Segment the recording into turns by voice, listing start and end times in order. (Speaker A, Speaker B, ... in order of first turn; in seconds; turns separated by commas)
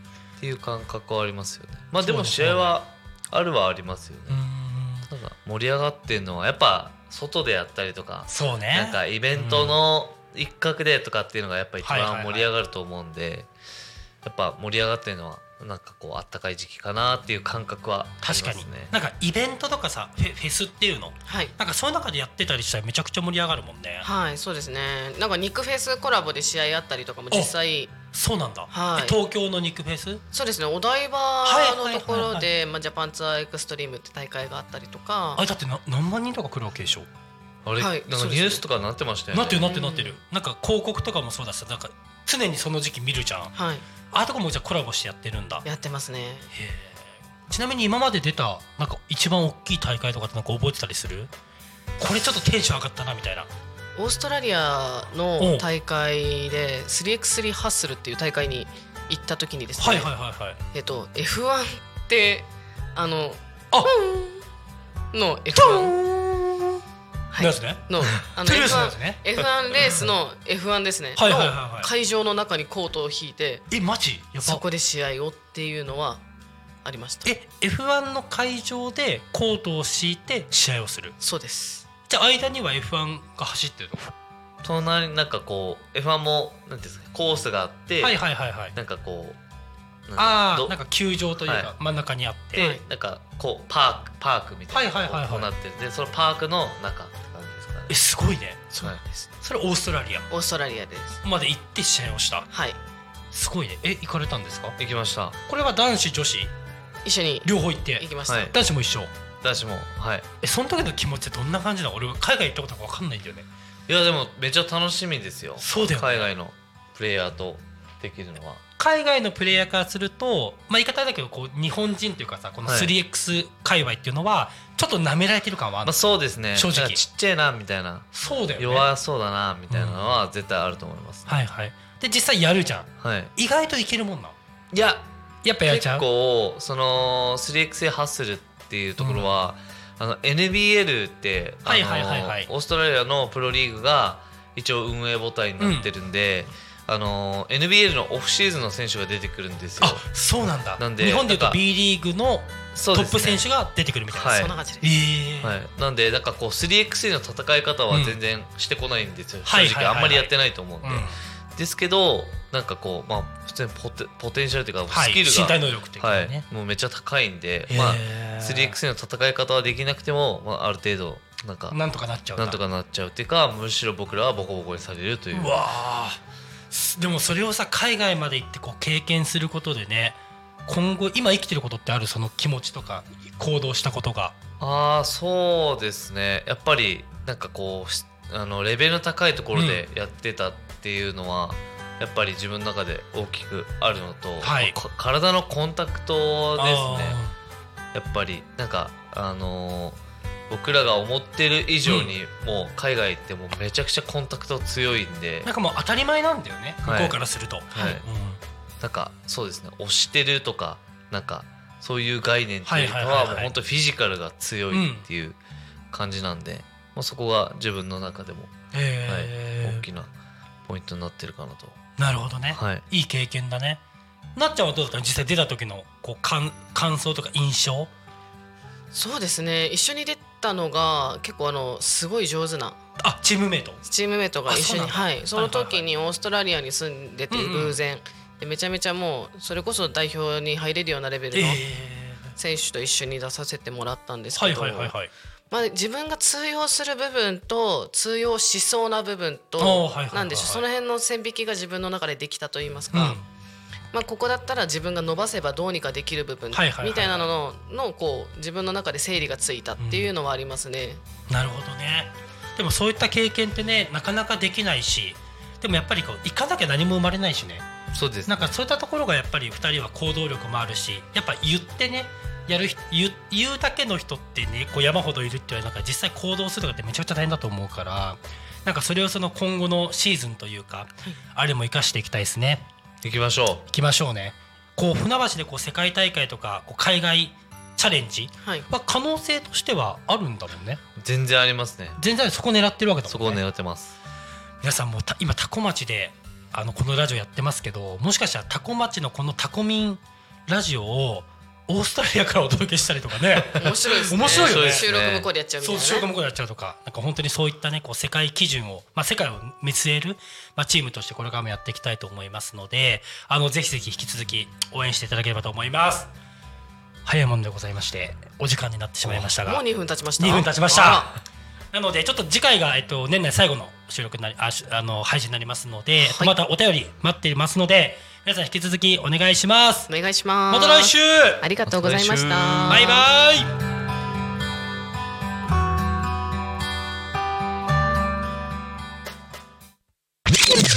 Speaker A: 0.4-4.4, Speaker B: 2.0-2.8, Speaker B: 4.3-5.1, Speaker A: 5.0-13.5, Speaker B: 8.3-9.8, Speaker B: 11.8-12.5, Speaker A: 14.2-18.9, Speaker B: 18.2-24.1, Speaker C: 21.2-21.5, Speaker C: 24.0-27.9, Speaker B: 28.1-30.2, Speaker C: 28.7-29.2, Speaker C: 30.3-35.4, Speaker B: 31.4-32.5, Speaker B: 35.4-37.1, Speaker A: 37.6-39.7, Speaker C: 37.8-38.6, Speaker B: 39.3-43.5, Speaker C: 39.6-40.2, Speaker C: 43.5-43.9, Speaker B: 44.1-45.6, Speaker C: 45.6-46.5, Speaker B: 46.5-51.3, Speaker B: 52.0-53.5, Speaker C: 54.0-60.1, Speaker B: 55.4-55.6, Speaker B: 59.8-60.6, Speaker C: 60.7-64.4, Speaker C: 65.1-66.0, Speaker B: 65.5-66.8, Speaker C: 67.3-73.6, Speaker B: 67.4-69.2, Speaker B: 71.2-71.9, Speaker B: 73.7-74.6, Speaker C: 74.4-76.2, Speaker C: 76.8-77.3, Speaker B: 77.2-81.2, Speaker C: 81.2-81.8, Speaker B: 82.1-84.1, Speaker A: 84.6-89.4, Speaker B: 88.0-88.8, Speaker A: 90.1-90.8, Speaker B: 90.2-92.7, Speaker A: 91.4-91.7, Speaker A: 92.5-98.0, Speaker C: 92.5-92.8, Speaker B: 94.7-95.5, Speaker B: 97.9-98.7, Speaker A: 98.7-99.0, Speaker C: 98.8-99.3, Speaker B: 99.4-100.3, Speaker C: 100.3-101.2, Speaker B: 101.2-102.5, Speaker C: 102.5-102.8, Speaker B: 103.3-104.8, Speaker A: 104.8-105.4, Speaker B: 105.5-106.5, Speaker C: 107.0-108.5, Speaker B: 107.4-109.1, Speaker A: 108.3-108.5, Speaker A: 109.4-110.2, Speaker B: 110.4-113.5, Speaker A: 113.9-118.6, Speaker B: 115.6-116.3, Speaker B: 118.8-126.0, Speaker A: 122.6-122.9, Speaker A: 125.8-131.3, Speaker B: 126.5-127.0, Speaker B: 128.1-128.9, Speaker B: 129.7-130.1, Speaker B: 131.2-134.3, Speaker A: 133.0-133.3, Speaker A: 134.7-135.1, Speaker B: 135.4-136.1, Speaker A: 135.6-150.1, Speaker B: 139.0-139.3, Speaker B: 141.7-142.5, Speaker B: 145.6-145.9, Speaker B: 149.8-155.6, Speaker A: 150.8-151.6, Speaker A: 152.7-153.5, Speaker A: 154.1-154.5, Speaker C: 154.3-154.9, Speaker A: 155.4-171.8, Speaker B: 157.9-158.2, Speaker B: 159.4-161.2, Speaker B: 164.9-166.4, Speaker B: 167.7-168.8, Speaker B: 171.7-172.6, Speaker A: 172.4-175.6, Speaker B: 175.3-176.2, Speaker B: 176.7-184.3, Speaker A: 184.6-197.2, Speaker B: 189.5-189.8, Speaker B: 194.4-194.8, Speaker B: 196.6-197.3, Speaker A: 197.9-205.5, Speaker B: 201.8-202.1, Speaker B: 205.4-208.4, Speaker A: 206.8-207.2, Speaker A: 207.7-208.0, Speaker A: 208.8-215.4, Speaker B: 212.6-213.5, Speaker B: 214.7-215.1, Speaker A: 215.9-218.5, Speaker B: 218.7-219.8, Speaker A: 219.1-220.1, Speaker A: 220.7-221.8, Speaker B: 222.0-223.8, Speaker A: 222.5-222.9, Speaker B: 224.4-227.9, Speaker C: 228.9-232.8, Speaker B: 233.0-233.8, Speaker C: 233.8-241.6, Speaker B: 234.5-235.8, Speaker B: 237.3-237.8, Speaker B: 241.3-242.3, Speaker C: 242.4-244.9, Speaker B: 244.3-245.1, Speaker C: 245.5-253.2, Speaker B: 249.6-250.6, Speaker B: 252.9-253.2, Speaker C: 253.9-261.0, Speaker B: 256.5-257.3, Speaker B: 259.8-260.1, Speaker B: 261.3-267.6, Speaker A: 267.9-268.6, Speaker B: 268.2-282.7, Speaker A: 283.0-283.7, Speaker B: 283.7-290.8, Speaker C: 288.4-288.7, Speaker A: 291.0-292.0, Speaker B: 292.0-293.4, Speaker A: 293.1-293.9, Speaker B: 294.6-304.9, Speaker C: 303.6-306.1, Speaker A: 304.2-305.3, Speaker B: 305.6-316.1, Speaker B: 317.0-319.6, Speaker C: 319.4-321.1, Speaker B: 320.2-321.1, Speaker B: 321.7-329.9, Speaker C: 326.0-326.4, Speaker C: 329.9-333.1, Speaker B: 330.5-331.4, Speaker A: 331.6-332.9, Speaker B: 332.7-333.5